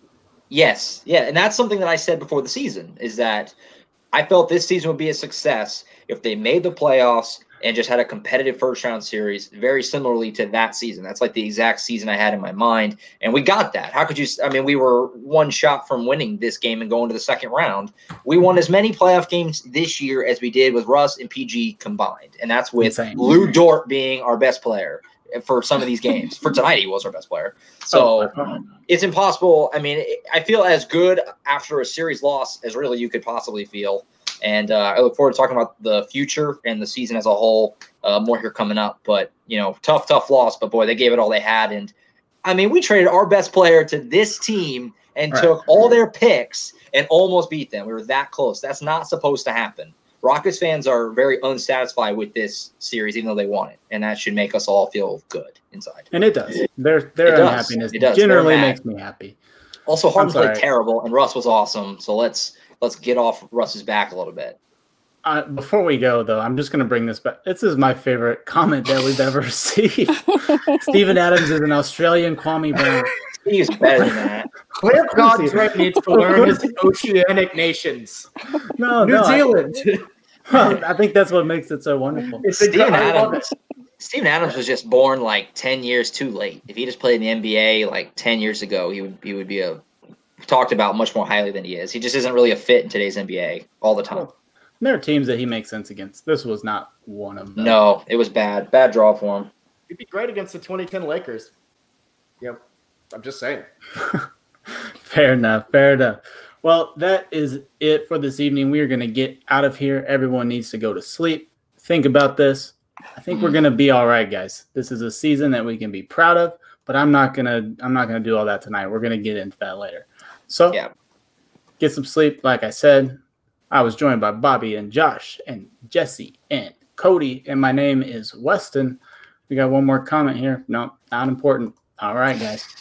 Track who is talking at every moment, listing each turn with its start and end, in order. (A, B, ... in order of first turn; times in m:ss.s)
0:00.5-0:03.6 A
0:04.1-0:28.3 A
0:22.8-0:23.4 B
0:27.9-0:28.6 B
0:28.9-0:41.9 A
0:42.4-0:56.1 A
0:56.1-0:59.4 B
0:57.3-0:58.8 A
0:59.9-1:04.6 A
1:00.2-1:00.6 B
1:05.2-1:13.1 B
1:13.3-1:14.5 A
1:14.8-1:18.3 C
1:15.2-1:15.6 B
1:16.1-1:16.6 B
1:18.8-1:19.5 B
1:19.0-1:20.7 C
1:20.5-1:22.4 B
1:22.4-1:23.4 C
1:22.5-1:29.8 A
1:30.4-1:34.3 A
1:34.1-1:37.8 B
1:37.6-1:39.5 A
1:39.9-1:41.5 C
1:42.4-1:43.7 C
1:44.0-1:44.3 B
1:45.0-2:00.8 B
1:53.3-1:53.6 A
2:01.8-2:03.2 B
2:03.7-2:12.7 B